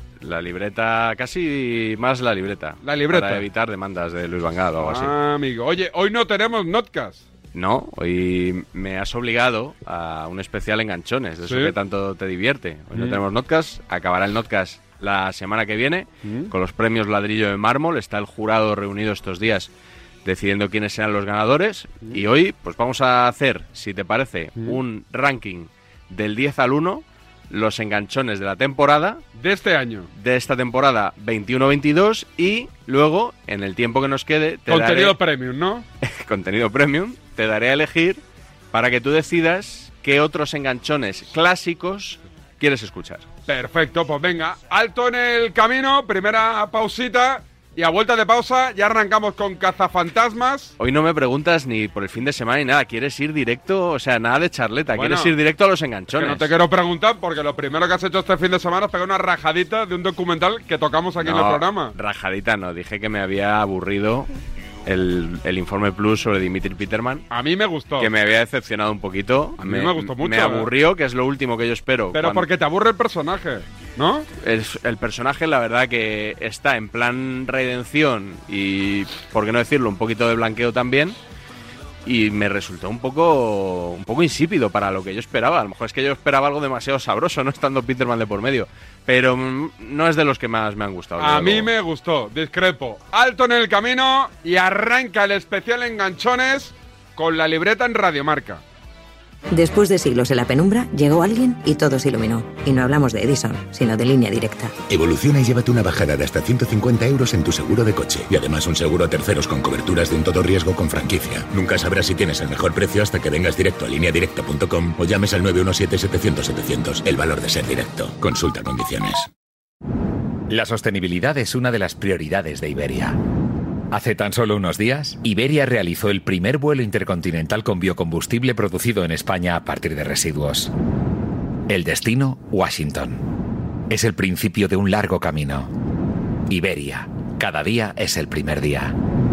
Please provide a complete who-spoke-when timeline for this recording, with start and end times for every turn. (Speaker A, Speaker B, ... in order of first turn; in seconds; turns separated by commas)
Speaker A: 0.2-5.1, Speaker B: 2.8-3.5, Speaker B: 4.8-7.2, Speaker A: 7.5-19.7, Speaker B: 11.4-11.7, Speaker B: 12.9-13.2, Speaker B: 16.2-16.5, Speaker A: 20.2-29.2, Speaker B: 29.4-30.1, Speaker A: 30.1-35.2, Speaker B: 34.7-35.8, Speaker A: 36.0-38.2, Speaker A: 38.7-43.3, Speaker B: 43.5-50.7, Speaker A: 50.8-56.5, Speaker B: 54.9-55.3, Speaker B: 56.1-61.9, Speaker A: 61.2-64.3, Speaker A: 64.9-67.3, Speaker B: 67.3-68.1, Speaker A: 68.0-72.5, Speaker B: 69.6-70.7, Speaker B: 72.1-74.3, Speaker A: 74.4-81.2, Speaker A: 82.0-91.7, Speaker B: 91.2-98.6, Speaker C: 99.5-104.7, Speaker D: 104.9-119.3, Speaker E: 120.5-123.2, Speaker E: 123.9-130.7, Speaker E: 131.7-133.2, Speaker E: 133.9-135.7, Speaker E: 136.5-138.9